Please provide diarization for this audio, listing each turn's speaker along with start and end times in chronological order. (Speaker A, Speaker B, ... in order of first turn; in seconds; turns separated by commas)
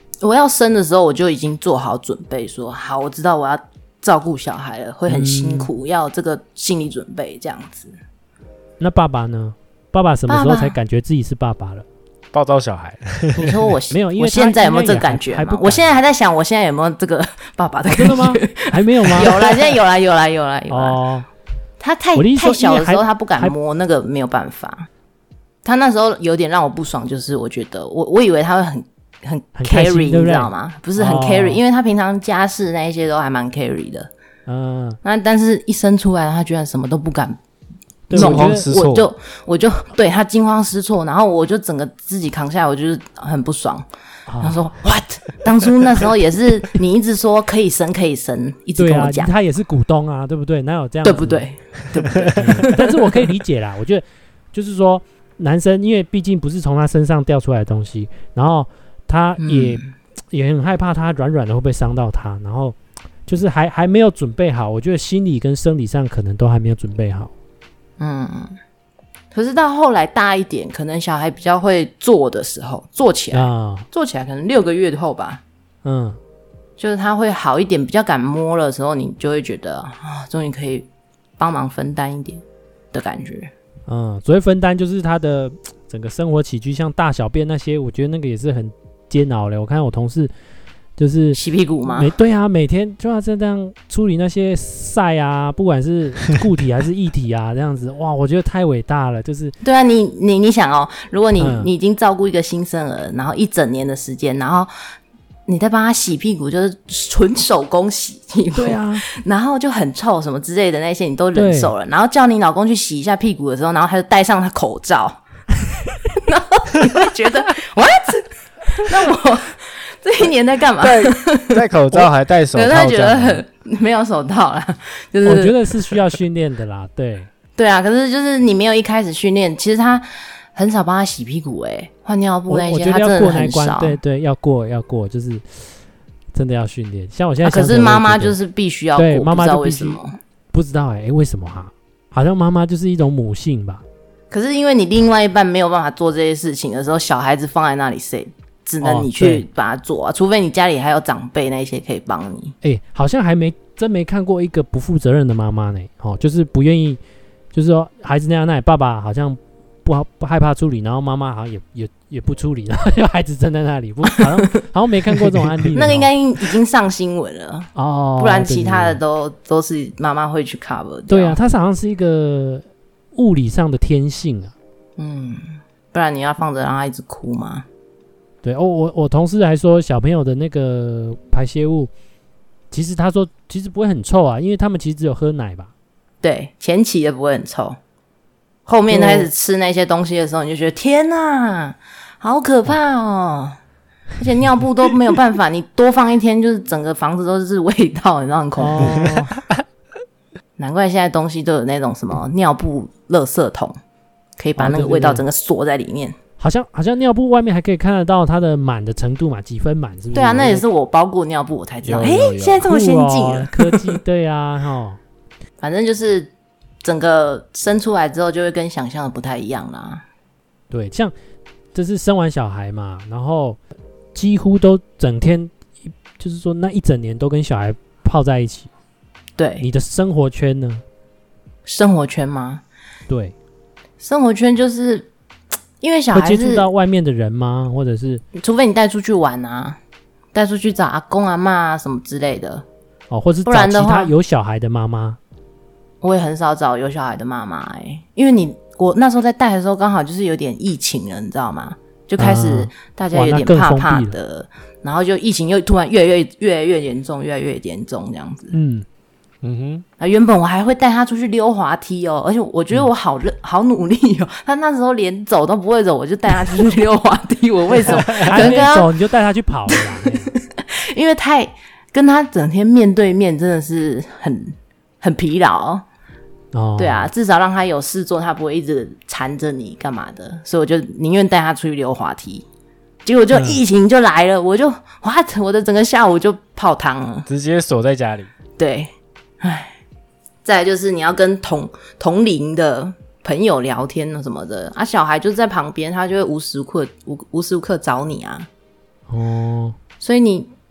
Speaker A: 0.2-7.9, Speaker B: 5.1-5.7, Speaker B: 8.8-11.8, Speaker A: 10.3-10.7, Speaker C: 12.3-13.7, Speaker A: 13.3-21.0, Speaker B: 13.9-16.0, Speaker B: 17.9-19.4, Speaker B: 20.7-21.2, Speaker A: 21.8-24.9, Speaker B: 22.1-23.5, Speaker A: 25.6-34.1, Speaker B: 29.6-31.6, Speaker B: 34.5-35.0, Speaker A: 35.0-37.4, Speaker B: 38.1-38.6, Speaker A: 38.1-43.8, Speaker C: 38.1-39.1, Speaker B: 44.3-44.6, Speaker A: 44.4-49.3, Speaker B: 48.7-51.5, Speaker A: 51.0-53.0, Speaker B: 52.3-67.3, Speaker A: 59.4-59.9, Speaker A: 68.0-68.6, Speaker A: 69.3-75.4, Speaker B: 73.3-73.8, Speaker B: 75.8-76.2, Speaker A: 76.8-80.9, Speaker A: 81.4-83.5, Speaker B: 83.9-90.3, Speaker B: 91.0-99.5, Speaker A: 91.3-92.1, Speaker A: 99.6-104.7, Speaker B: 101.4-101.7, Speaker A: 105.5-115.2, Speaker B: 108.5-109.0, Speaker B: 111.3-111.7, Speaker A: 116.1-125.5, Speaker C: 120.8-123.4, Speaker B: 125.2-127.3, Speaker A: 127.6-134.0, Speaker B: 132.5-135.4, Speaker B: 136.3-138.3, Speaker A: 137.4-140.2, Speaker B: 138.9-140.0, Speaker B: 140.5-143.8, Speaker A: 144.3-152.5, Speaker B: 148.8-149.4, Speaker B: 152.6-157.0, Speaker B: 157.5-166.1, Speaker A: 165.7-171.4, Speaker B: 167.8-169.0, Speaker B: 171.1-174.5, Speaker A: 175.0-177.7, Speaker B: 178.4-181.9, Speaker B: 182.7-185.7, Speaker A: 186.2-187.8, Speaker A: 188.7-193.6, Speaker B: 188.9-189.3, Speaker A: 194.2-199.2, Speaker B: 198.6-199.3, Speaker A: 200.6-203.8, Speaker A: 204.4-206.2, Speaker B: 204.6-205.2, Speaker B: 206.4-210.6, Speaker A: 210.1-214.0, Speaker C: 211.8-212.7, Speaker B: 212.6-215.0, Speaker A: 215.6-216.3, Speaker A: 216.8-220.0, Speaker B: 220.7-221.1, Speaker B: 221.7-223.6, Speaker B: 224.1-225.5, Speaker B: 226.2-228.7, Speaker A: 229.4-229.7, Speaker B: 229.6-230.8, Speaker A: 231.7-232.6, Speaker B: 233.1-233.3, Speaker A: 234.0-235.1, Speaker A: 235.8-236.7, Speaker B: 236.1-238.2, Speaker A: 238.3-239.8, Speaker A: 240.3-242.6, Speaker B: 243.1-245.2, Speaker A: 243.4-244.1, Speaker A: 246.0-258.5, Speaker B: 252.2-254.2, Speaker B: 258.5-258.9, Speaker C: 259.4-259.8, Speaker A: 260.0-268.9, Speaker B: 267.9-270.3, Speaker C: 267.9-268.5, Speaker A: 269.7-275.8, Speaker B: 276.5-277.1, Speaker A: 276.8-282.4, Speaker A: 283.1-287.3, Speaker B: 283.3-283.6, Speaker C: 287.3-288.3, Speaker A: 288.6-289.8, Speaker A: 290.4-298.5, Speaker B: 299.1-299.8, Speaker A: 300.0-300.5